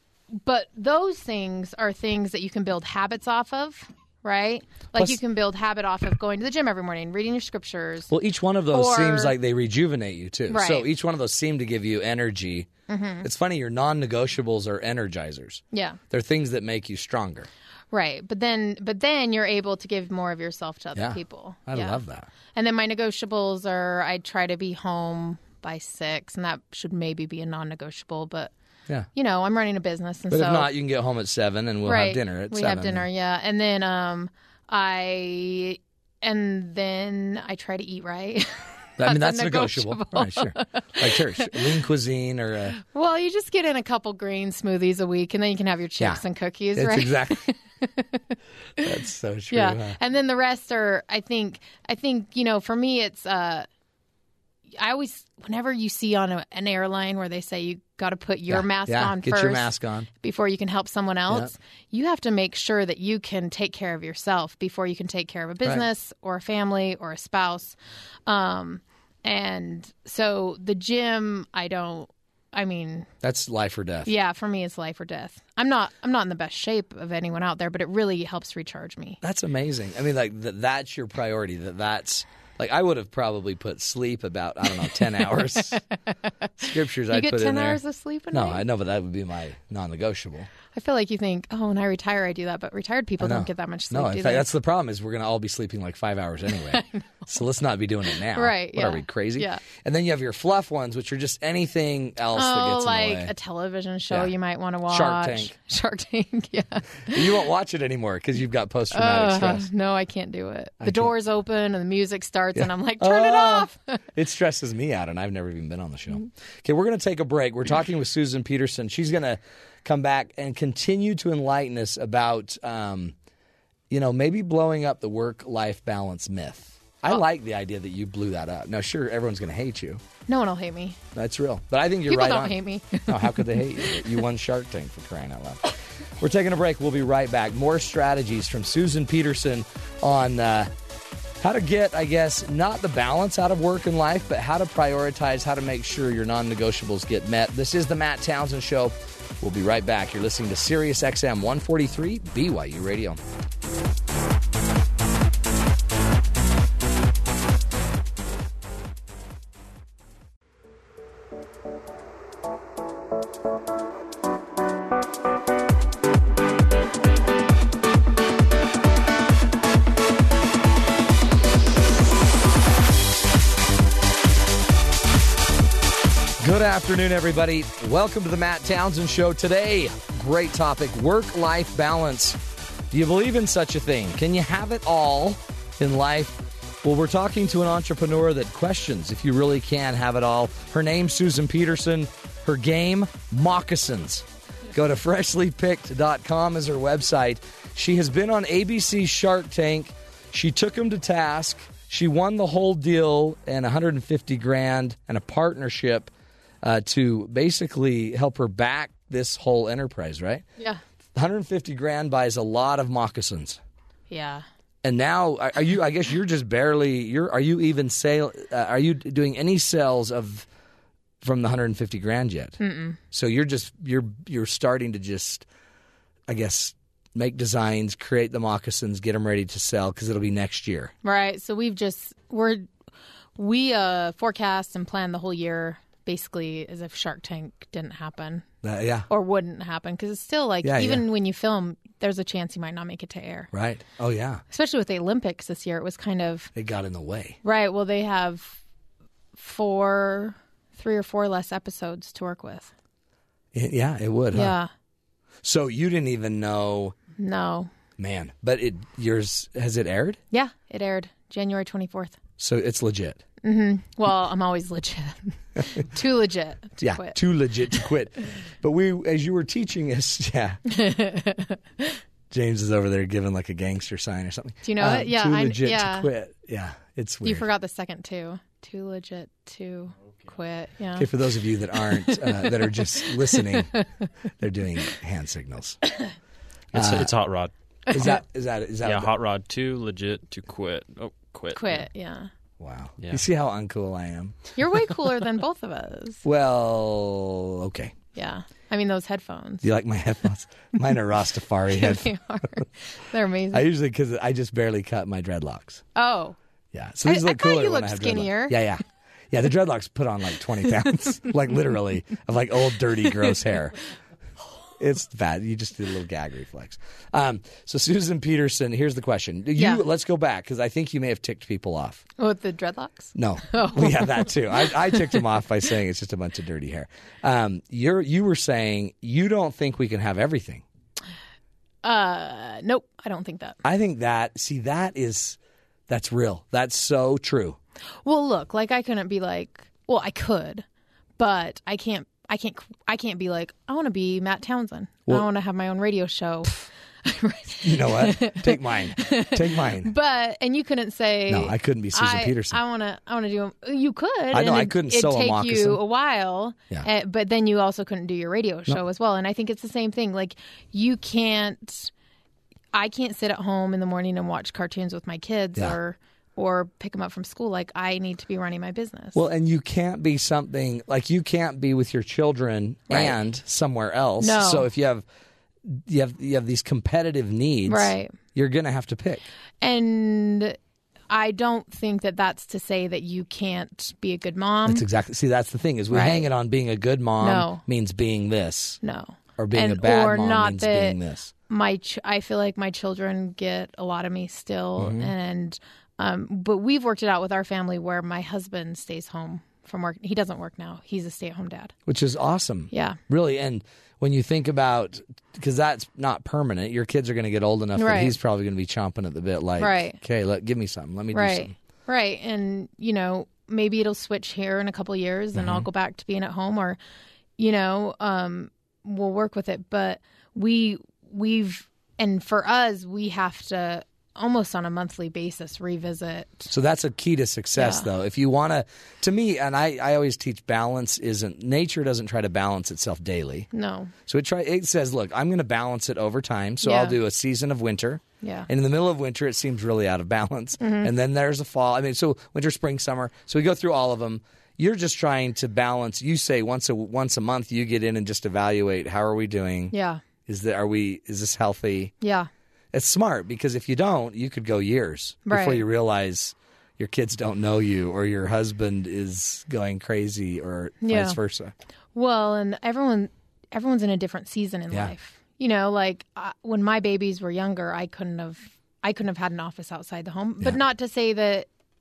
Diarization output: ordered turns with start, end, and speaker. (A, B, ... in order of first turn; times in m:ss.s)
0:00.3-0:08.1 A
0:08.1-0:12.7 B
0:08.7-0:09.3 A
0:10.5-0:10.8 A
0:12.9-0:13.3 A
0:13.2-0:17.5 B
0:15.7-0:16.0 A
0:17.9-0:28.5 A
0:21.0-0:22.3 B
0:29.1-0:30.7 A
0:30.3-0:33.1 B
0:31.8-0:41.7 A
0:39.0-0:42.8 B
0:42.7-0:48.9 A
0:46.7-0:47.4 B
0:48.8-0:50.0 B
0:49.5-0:53.7 A
0:54.8-1:07.8 A
0:58.5-1:00.1 B
1:08.3-1:13.1 A
1:13.2-1:14.1 B
1:14.0-1:19.2 A
1:19.2-1:25.8 B
1:26.6-1:27.8 B
1:27.1-1:28.6 A
1:28.3-1:30.5 B
1:30.6-1:34.5 A
1:33.2-1:43.3 B
1:36.7-1:37.0 A
1:38.3-1:39.6 A
1:42.3-1:47.3 A
1:44.9-1:45.5 B
1:47.1-1:49.7 B
1:48.9-1:53.8 A
1:50.8-1:51.1 B
1:52.6-2:03.1 B
2:03.9-2:10.0 B
2:10.3-2:11.0 A
2:11.1-2:20.7 B
2:12.1-2:14.0 A
2:21.4-2:33.2 B
2:56.4-3:02.4 B
3:02.9-3:26.1 B
3:26.6-3:30.4 B
3:31.1-3:33.6 B
3:34.1-3:34.4 A
3:34.8-3:40.5 B
3:41.2-3:42.6 B
3:42.6-3:43.0 A
3:43.1-3:45.4 B
3:46.3-3:50.9 B
3:51.0-3:52.7 A
3:53.4-3:58.4 A
3:58.6-3:59.1 B
3:59.1-4:03.5 A
4:00.6-4:01.0 B
4:03.5-4:04.4 B
4:04.5-4:06.5 A
4:06.6-4:07.4 B
4:07.4-4:08.6 A
4:09.3-4:12.7 A
4:13.5-4:14.6 B
4:14.3-4:14.7 A
4:15.4-4:17.0 B
4:17.2-4:17.7 A
4:18.0-4:20.2 B
4:20.3-4:22.2 A
4:22.4-4:23.2 B
4:23.4-4:27.2 A
4:26.8-4:30.6 B
4:30.7-4:32.0 A
4:32.3-4:37.5 B
4:34.6-4:36.1 A
4:37.2-4:41.1 A
4:41.0-4:43.7 B
4:41.8-4:43.8 A
4:44.4-4:45.8 B
4:46.7-4:47.1 B
4:46.7-4:48.1 C
4:47.9-4:49.1 B
4:48.8-4:51.9 C
4:51.5-4:52.3 A
4:52.6-4:54.5 B
4:54.5-4:56.2 A
4:56.2-4:58.0 B
4:58.1-4:59.6 A
4:59.6-5:02.1 B
5:01.7-5:03.6 A
5:03.5-5:05.8 B
5:05.9-5:06.4 A
5:06.7-5:13.8 B
5:07.0-5:08.6 A
5:14.8-5:22.0 B
5:19.6-5:19.8 A
5:22.2-5:25.1 A
5:23.2-5:30.6 B
5:31.8-5:33.6 A
5:33.6-5:37.6 B
5:38.0-5:40.6 A
5:41.2-6:01.9 A
5:47.6-5:49.9 B
5:51.3-5:52.6 B
5:54.3-5:55.8 B
6:02.7-6:09.2 A
6:09.1-6:15.0 B
6:12.9-6:13.2 A
6:14.2-6:14.7 A
6:15.7-6:19.2 B
6:17.7-6:18.2 A
6:19.6-6:20.6 A
6:21.1-6:24.8 A
6:24.6-6:28.8 B
6:25.9-6:26.2 A
6:27.2-6:27.6 A
6:28.8-6:31.0 A
6:29.4-6:31.3 B
6:31.5-6:41.7 A
6:34.8-6:35.1 B
6:41.9-6:51.5 B
6:42.7-6:43.0 A
6:47.8-6:48.1 A
6:49.6-6:50.0 A
6:51.1-6:56.8 A
6:55.3-6:55.7 B
6:57.4-7:06.5 A
7:06.5-7:13.5 B
7:07.6-7:07.9 A
7:13.5-7:13.9 A
7:14.1-7:29.7 B
7:16.6-7:16.9 A
7:18.2-7:18.5 A
7:20.6-7:20.9 A
7:29.7-7:30.0 A
7:30.2-7:31.9 B
7:32.0-7:32.3 A
7:32.7-7:41.5 B
7:35.3-7:35.6 A
7:40.8-7:41.2 A
7:41.9-7:51.5 A